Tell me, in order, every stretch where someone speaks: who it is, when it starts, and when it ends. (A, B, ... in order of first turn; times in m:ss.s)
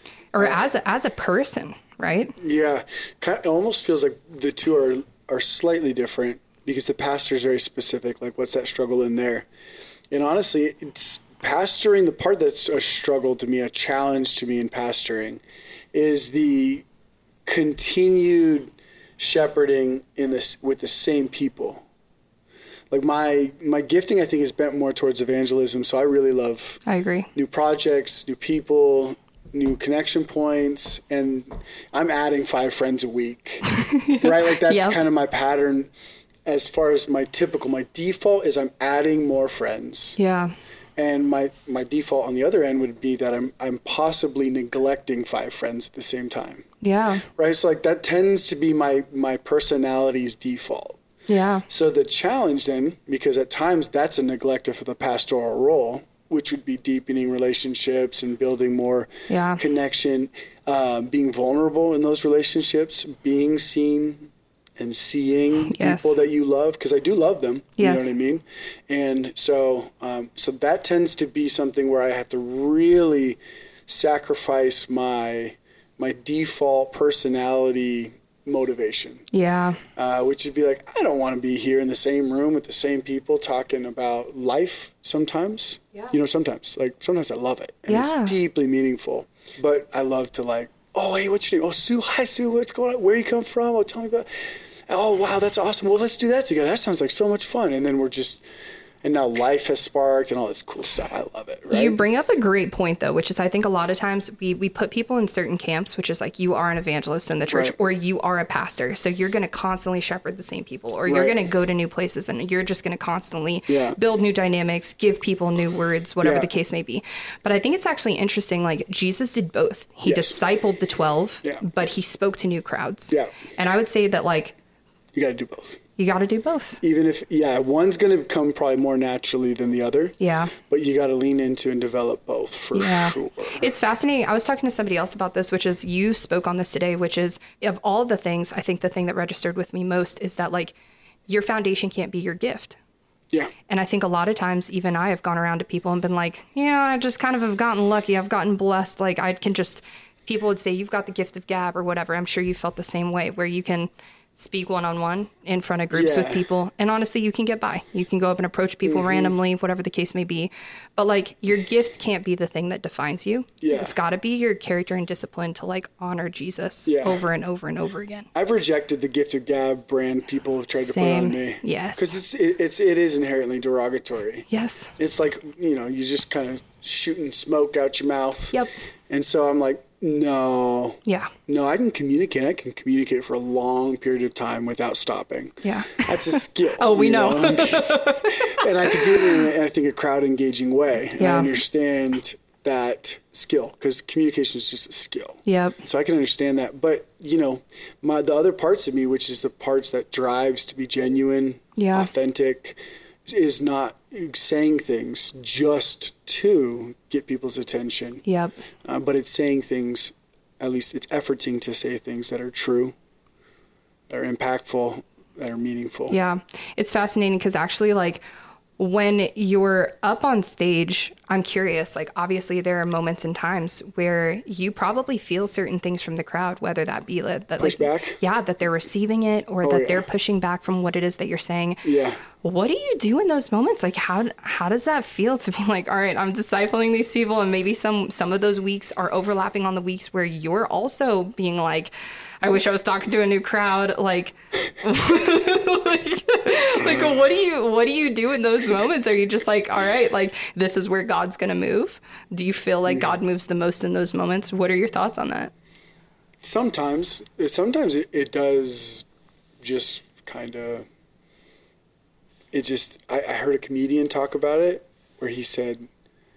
0:00.3-0:02.3 A
0:02.4-0:09.5 B
0:10.1-0:15.4 B
0:15.9-0:16.8 B
0:17.4-0:21.8 B
0:22.9-0:26.8 B
0:26.8-0:27.3 A
0:27.3-0:33.6 B
0:33.7-0:35.0 A
0:34.2-0:35.9 B
0:36.4-0:40.2 B
0:40.2-0:40.5 A
0:41.0-0:46.6 B
0:46.8-0:47.2 A
0:47.2-0:51.0 B
0:51.3-0:51.6 A
0:51.7-1:19.3 B
0:59.3-0:59.6 A
1:05.7-1:06.1 A
1:07.8-1:08.1 A
1:19.3-1:19.8 A
1:20.0-1:38.4 B
1:27.9-1:28.3 A
1:39.0-1:42.0 B
1:41.7-2:04.6 A
1:47.5-1:47.7 B
1:51.0-1:51.4 B
1:53.7-1:54.0 B
1:56.2-1:56.5 B
2:00.0-2:00.4 B
2:05.1-2:05.8 B
2:06.0-2:06.8 A
2:06.8-2:13.7 B
2:10.2-2:10.5 A
2:12.7-2:20.7 A
2:21.3-2:22.8 A
2:23.7-2:48.3 A
2:35.9-2:36.4 B
2:38.8-2:39.3 B
2:43.6-2:43.9 B
2:46.8-2:47.2 B
2:48.3-2:54.5 B
2:50.7-2:52.2 A
2:54.5-2:54.9 A
2:55.0-2:58.6 B
2:59.1-3:28.2 B
3:01.0-3:01.3 A
3:05.6-3:09.5 A
3:11.2-3:11.6 A
3:15.4-3:15.8 A
3:21.8-3:22.1 A
3:28.2-3:28.5 A
3:28.8-3:32.9 B
3:34.1-3:36.2 B
3:36.1-3:38.2 A
3:38.8-3:51.8 A
3:47.6-3:48.2 B
3:49.6-3:50.0 B
3:51.8-3:52.2 B
3:52.4-4:15.5 A
4:16.4-4:19.0 B
4:19.6-4:20.8 B
4:22.5-4:25.8 B